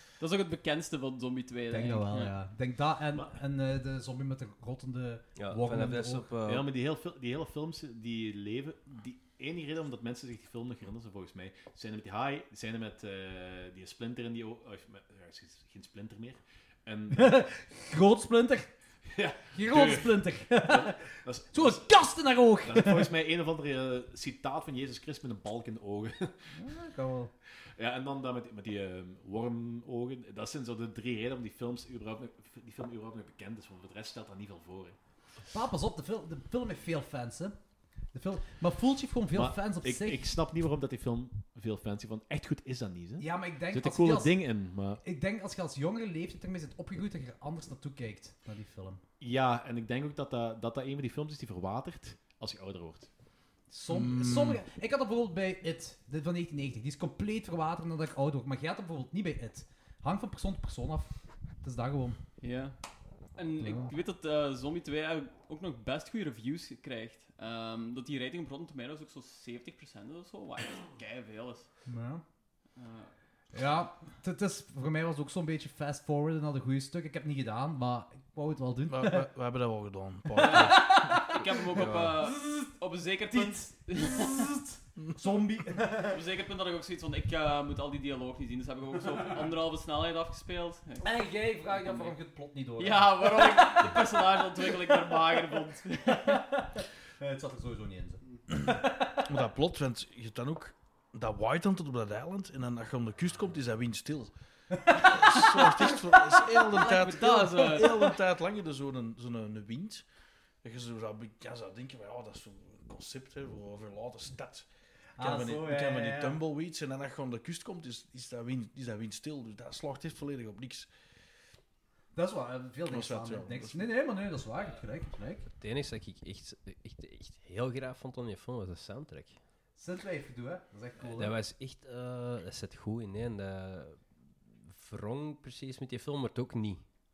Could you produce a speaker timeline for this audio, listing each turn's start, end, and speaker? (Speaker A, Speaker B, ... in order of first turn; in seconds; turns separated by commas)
Speaker A: 0.2-2.4, Speaker B: 1.7-6.3, Speaker C: 5.4-6.7, Speaker D: 6.4-17.5, Speaker B: 17.1-18.7, Speaker D: 19.1-26.6, Speaker B: 19.5-23.1, Speaker B: 26.5-27.3, Speaker D: 27.8-35.0, Speaker B: 35.5-37.6, Speaker B: 38.1-40.3, Speaker D: 39.3-45.0, Speaker B: 43.2-49.0, Speaker D: 49.2-53.1, Speaker B: 53.7-62.2, Speaker E: 53.9-54.6, Speaker A: 62.4-62.8, Speaker A: 63.4-71.7, Speaker B: 63.6-63.9, Speaker B: 71.9-72.2, Speaker A: 72.8-73.1, Speaker B: 73.5-79.3, Speaker E: 78.9-82.2, Speaker A: 80.4-84.5, Speaker B: 80.4-81.5, Speaker B: 82.2-82.7, Speaker B: 83.3-86.2, Speaker A: 86.0-92.2, Speaker B: 91.0-94.1, Speaker A: 92.8-96.5, Speaker B: 94.7-95.0, Speaker B: 96.1-99.3, Speaker E: 99.2-104.3, Speaker B: 104.7-105.9, Speaker E: 104.9-110.0, Speaker A: 106.7-108.1, Speaker E: 110.6-114.7, Speaker B: 115.2-116.4, Speaker E: 115.2-120.9, Speaker B: 122.1-125.4, Speaker E: 122.9-123.9, Speaker C: 125.6-129.4, Speaker B: 129.8-131.3, Speaker C: 131.0-136.8